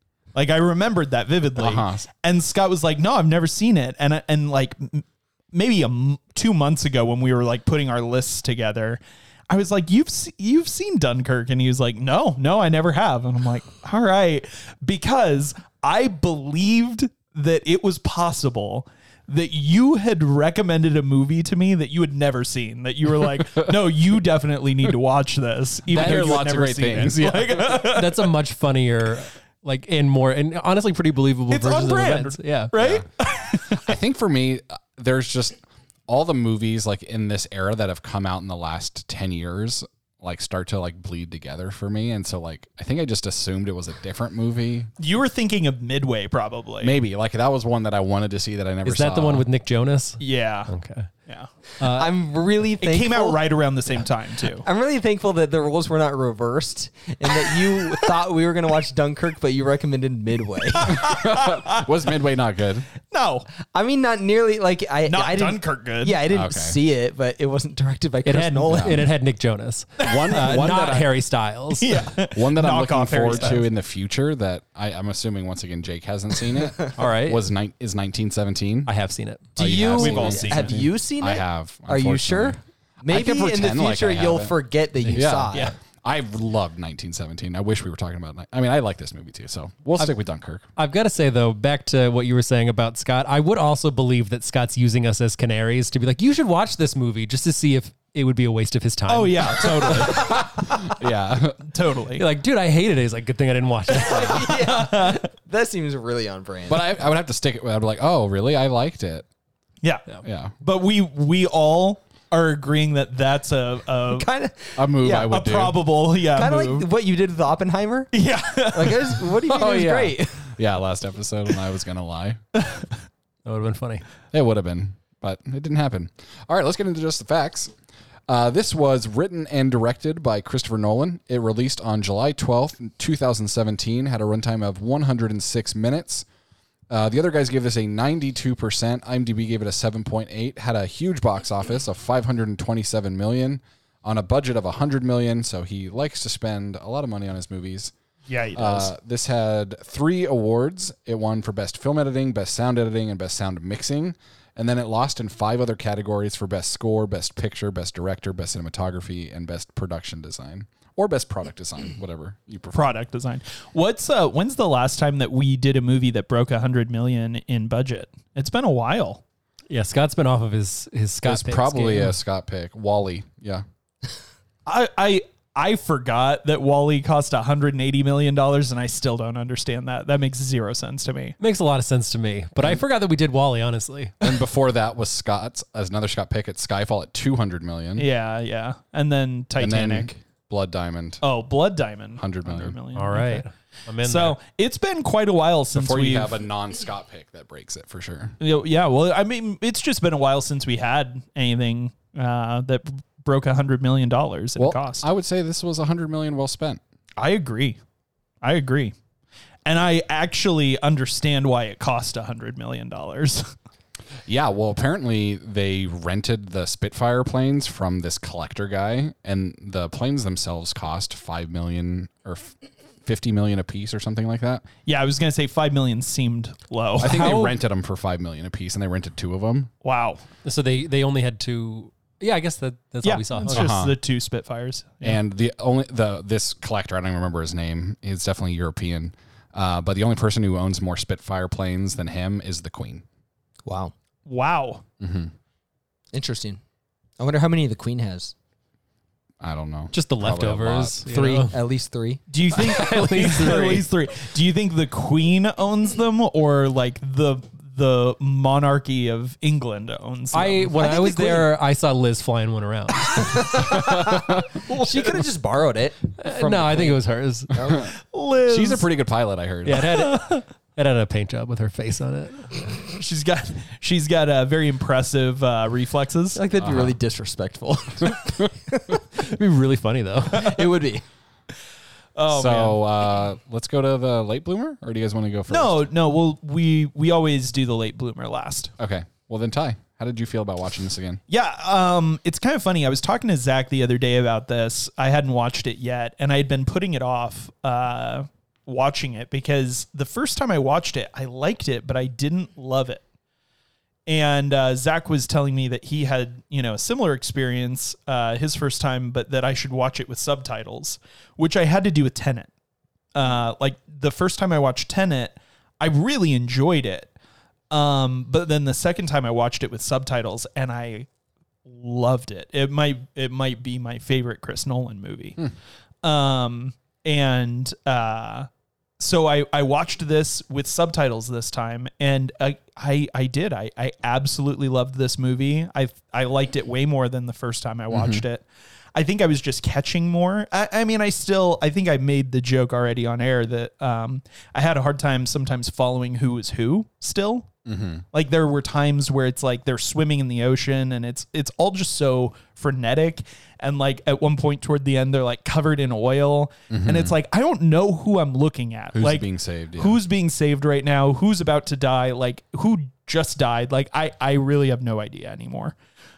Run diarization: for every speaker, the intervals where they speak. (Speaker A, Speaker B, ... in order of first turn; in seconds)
Speaker A: 0.3-28.3, 31.5-34.0, 45.0-47.0, 50.2-50.7, 52.8-54.7, 57.3-58.0, 60.7-61.9, 63.1-63.5, 65.1-66.2, 70.1-70.7, 71.8-73.7, 79.6-80.8, 99.1-100.5, 101.6-102.3, 104.1-105.3, 109.8-110.1, 110.6-114.3, 115.2-116.9, 118.1-119.9, 122.6-122.9, 148.3-148.9, 162.7-169.2, 174.7-181.4, 188.0-190.1, 191.2-196.4, 198.4-205.1, 207.2-207.8, 208.4-208.9, 209.7-213.5, 224.8-227.6, 229.8-230.2, 233.0-235.2, 244.3-244.8, 252.3-261.4, 267.8-268.9, 269.9-270.4, 272.7-276.4, 282.2-282.8, 285.5-288.7, 291.3-303.0, 304.1-312.5, 313.1-317.1, 317.7-321.1, 321.6-325.4, 326.0-347.5, 348.1-365.8
Speaker B: 1.6-2.0, 25.9-27.8, 32.8-33.1, 33.6-44.9, 46.8-49.5, 60.9-62.9, 66.3-66.8, 68.7-69.0, 70.0-71.1, 72.3-78.9, 79.6-84.5, 85.1-85.5, 86.0-90.7, 100.1-101.6, 106.7-109.3, 110.2-110.6, 114.8-115.8, 119.8-122.4, 124.3-127.7, 128.3-136.2, 136.9-147.9, 148.6-162.9, 171.2-173.7, 184.2-188.1, 189.6-191.2, 192.2-192.8, 195.7-198.4, 204.6-206.8, 214.3-224.6, 227.0-229.7, 233.5-233.9, 235.0-243.0, 245.0-245.3, 249.4-251.1, 263.6-264.5, 268.5-269.8, 276.6-277.0, 282.3-285.8, 288.8-291.2, 337.9-338.2, 347.7-348.0, 356.7-357.1, 358.9-360.0
Speaker C: 26.0-26.4, 27.8-32.7, 48.9-51.1, 51.8-52.1, 68.2-72.0, 77.0-77.4, 78.9-79.6, 80.3-80.8, 85.0-85.7, 90.8-100.3, 102.2-104.6, 123.5-124.0, 169.7-172.2, 181.4-184.2, 192.9-194.4, 230.4-233.7, 249.9-251.6, 252.6-253.8, 260.3-263.7, 266.2-267.8, 269.7-272.6, 279.2-280.6
Speaker D: 51.8-53.4, 54.6-61.0, 63.7-69.1, 79.6-85.7, 100.0-100.5, 104.0-107.0, 114.1-115.4, 116.3-118.1, 118.7-120.5, 243.7-243.9, 246.1-246.6, 247.2-248.3, 251.1-252.2, 261.0-261.4, 263.1-267.0, 267.5-267.8, 276.4-279.2, 280.3-281.0